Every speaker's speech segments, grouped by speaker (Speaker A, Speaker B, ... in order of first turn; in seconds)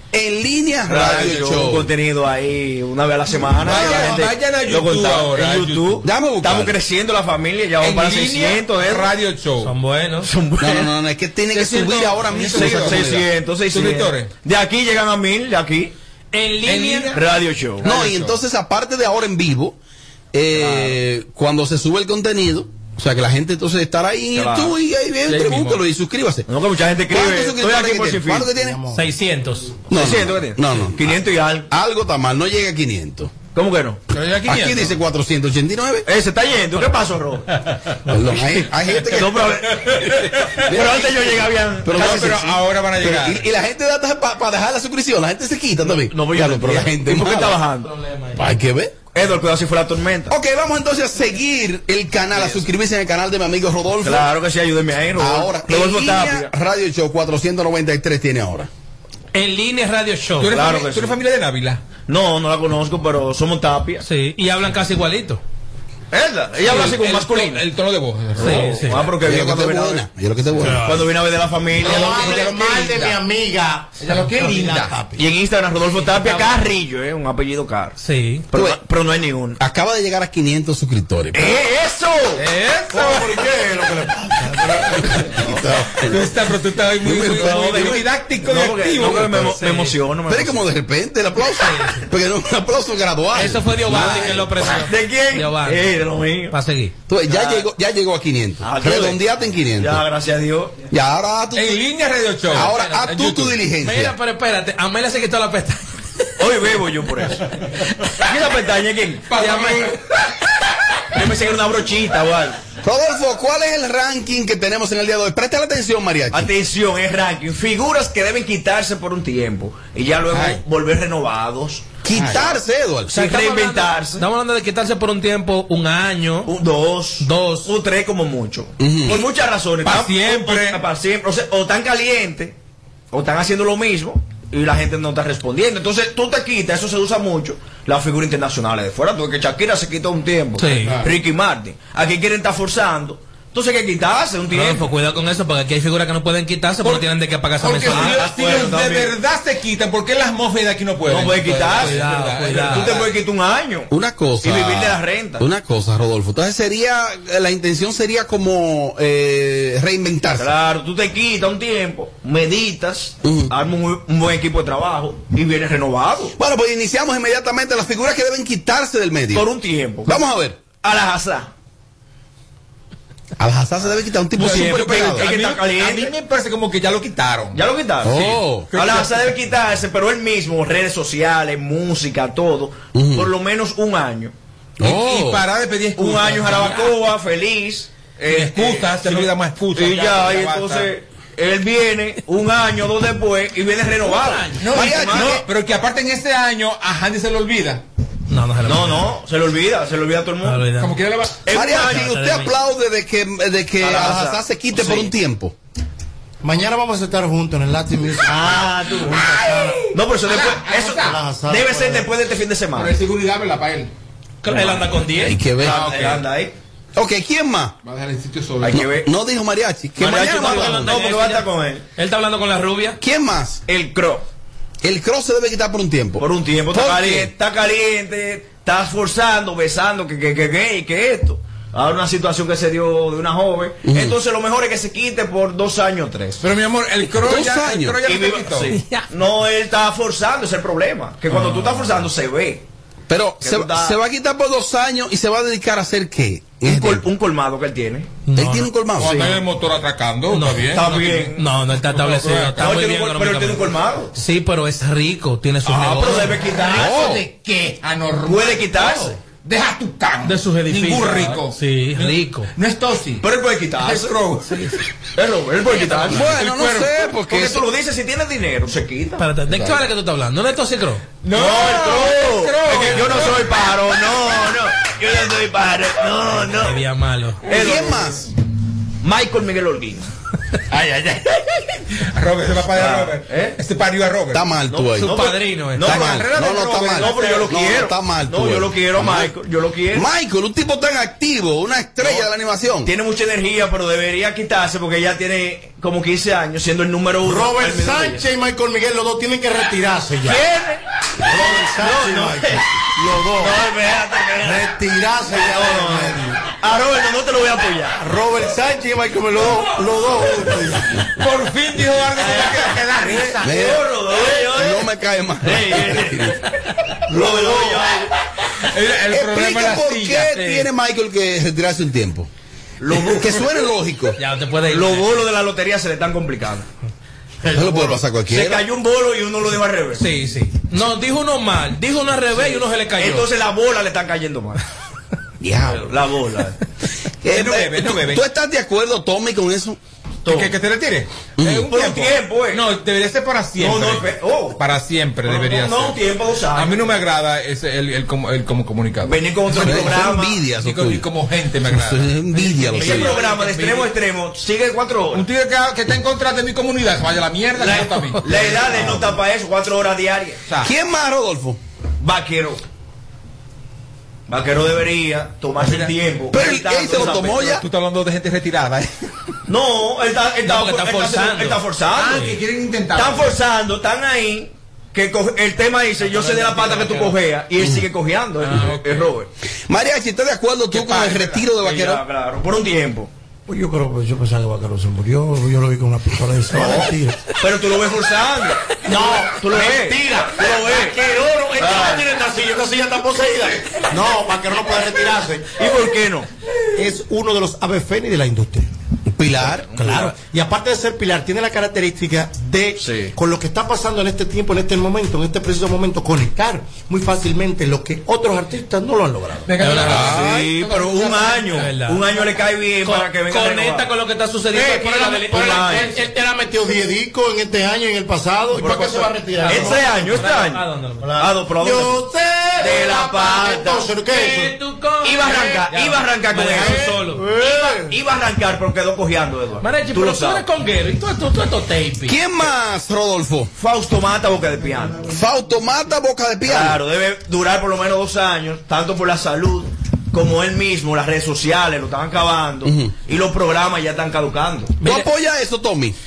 Speaker A: 0.1-1.9, 6.0-6.8, 10.6-13.2, 17.8-19.8, 20.3-26.5, 27.1-28.8, 29.9-31.2, 31.7-33.4, 34.5-36.1, 38.1-41.1, 41.8-47.6, 48.4-49.0, 50.3-54.3, 55.2-58.7, 69.2-70.8, 78.5-78.8, 79.6-81.6, 85.1-86.3, 87.0-87.9, 90.3-94.7, 97.1-100.0, 100.9-101.8, 102.5-104.2, 112.8-116.5, 122.0-123.3, 128.8-129.3, 153.9-160.5, 163.2-163.5, 166.4-169.4, 170.1-170.6, 173.4-175.3, 178.0-178.8, 182.9-183.3, 184.8-185.4, 194.7-195.4, 201.5-205.6, 215.2-216.1, 216.9-217.8, 218.7-220.9, 223.0-223.6, 224.8-227.3, 233.9-234.2, 237.1-238.1, 243.1-247.1, 248.3-249.3, 256.8-257.2, 266.1-267.6, 277.5-278.2, 284.3-285.2, 285.8-289.3, 289.9-292.9, 313.4-313.8, 314.5-316.4, 319.1-322.3, 322.9-324.2, 327.5-328.6, 335.4-335.9, 337.2-339.8, 341.4-341.7, 349.6-351.1, 351.7-353.1, 358.4-358.8, 360.6-361.6, 366.3-367.6, 379.7-382.0, 399.1-399.7, 410.0-410.3, 432.1-433.5, 435.1-436.8, 442.6-442.9, 444.8-446.0
Speaker B: 0.9-9.1, 10.2-10.9, 12.5-15.9, 17.1-18.3, 20.5-21.0, 24.3-24.7, 26.5-28.5, 29.9-31.7, 33.5-34.0, 36.1-37.6, 39.1-42.4, 46.1-47.9, 49.1-50.3, 52.4-52.6, 54.0-56.5, 60.5-61.2, 62.1-64.0, 66.1-67.6, 68.4-70.0, 70.8-72.6, 75.2-78.0, 78.5-79.6, 81.3-82.4, 87.2-90.6, 93.9-96.5, 97.3-97.7, 98.6-99.2, 99.8-100.8, 106.4-107.4, 108.2-109.4, 111.1-112.6, 116.3-122.5, 123.1-124.2, 126.5-132.5, 133.1-144.9, 147.9-149.1, 151.1-152.0, 152.5-153.9, 154.4-155.4, 160.4-166.3, 169.3-170.2, 170.7-171.5, 174.4-176.1, 177.5-184.3, 186.0-195.4, 198.7-200.6, 201.4-202.1, 203.8-205.1, 208.3-209.3, 209.9-212.9, 215.6-216.5, 218.6-219.1, 220.0-221.8, 223.7-224.2, 226.2-236.4, 238.0-242.6, 243.4-243.9, 246.6-248.1, 249.0-249.4, 250.7-251.4, 252.6-254.1, 255.7-257.2, 258.3-259.1, 263.2-264.1, 265.2-266.3, 267.3-269.8, 271.3-276.8, 277.5-278.1, 279.0-280.1, 282.7-283.6, 284.7-286.2, 287.0-290.1, 292.8-298.2, 300.3-300.8, 301.3-302.6, 303.4-304.7, 305.3-308.0, 312.2-312.8, 313.5-314.9, 315.4-316.3, 317.1-318.1, 322.8-323.6, 324.7-326.7, 327.8-330.0, 332.4-334.6, 335.6-336.6, 341.7-342.6, 343.6-344.6, 345.3-346.9, 349.0-350.4, 352.8-355.2, 357.6-360.4, 362.0-362.6, 364.3-367.6, 369.5-372.4, 372.9-379.3, 381.6-383.1, 387.4-390.9, 391.6-392.0, 395.6-396.3, 399.6-400.1, 402.8-403.1, 409.9-413.9, 415.3-415.9, 418.6-420.6, 421.2-422.0, 422.6-423.8, 425.0-430.4, 433.6-435.0, 436.4-444.7
Speaker C: 3.6-6.0, 7.8-9.7, 11.5-13.2, 13.7-14.3, 16.6-17.2, 25.3-25.8, 34.1-34.9, 42.0-43.5, 60.4-61.8, 66.6-68.8, 71.9-73.2, 74.0-74.9, 82.4-83.5, 86.1-89.4, 101.6-103.6, 109.3-110.0, 120.3-120.6, 122.1-122.5, 129.8-130.8, 147.6-153.0, 174.4-178.9, 184.8-186.9, 188.3-190.9, 194.6-197.8, 200.8-201.4, 210.3-211.2, 212.8-213.9, 217.8-218.8, 236.4-238.7, 249.0-252.7, 256.1-263.3, 263.8-264.5, 265.9-266.9, 271.2-273.5, 280.7-281.4, 282.0-284.4, 285.9-287.4, 311.2-313.7, 318.7-320.7, 337.3-338.2, 340.3-346.0, 346.6-350.0, 350.6-353.9, 355.1-359.0, 365.6-365.9, 367.6-368.9, 371.9-373.4, 378.5-379.1, 380.7-381.5, 409.5-411.4, 415.4-415.7
Speaker D: 9.6-10.3, 16.3-17.2, 28.9-29.8, 47.8-48.4, 59.3-60.6, 64.0-65.4, 68.4-69.0, 70.6-71.1, 78.0-78.5, 89.1-90.0, 91.6-92.1, 93.3-95.9, 96.5-96.9, 102.6-103.0, 103.8-105.9, 123.2-126.5, 127.2-127.7, 140.6-141.0, 144.5-148.2, 151.7-153.0, 194.1-194.5, 198.3-199.1, 200.4-201.0, 201.7-202.6, 214.4-216.2, 220.0-223.0, 248.3-248.7, 250.3-250.8, 251.3-256.9, 260.2-262.5, 264.5-264.8, 269.2-271.1, 276.6-277.5, 285.0-286.1, 324.2-325.1, 330.0-333.3, 358.2-358.6, 370.4-371.6, 376.1-377.1, 409.6-410.4, 411.4-412.2, 412.8-416.2, 419.4-421.1, 422.9-423.5, 424.1-427.3, 429.6-432.2, 444.8-445.1
Speaker E: 28.5-29.0, 71.8-75.3, 82.9-85.3, 206.4-209.9, 211.0-212.1, 297.2-300.5, 301.2-303.7, 304.4-306.4, 308.0-311.0, 313.1-313.3, 317.1-317.9, 327.5-327.9, 383.5-387.4, 388.9-395.6, 396.8-398.7, 399.8-409.5, 414.6-419.9, 421.0-424.6, 426.9-428.0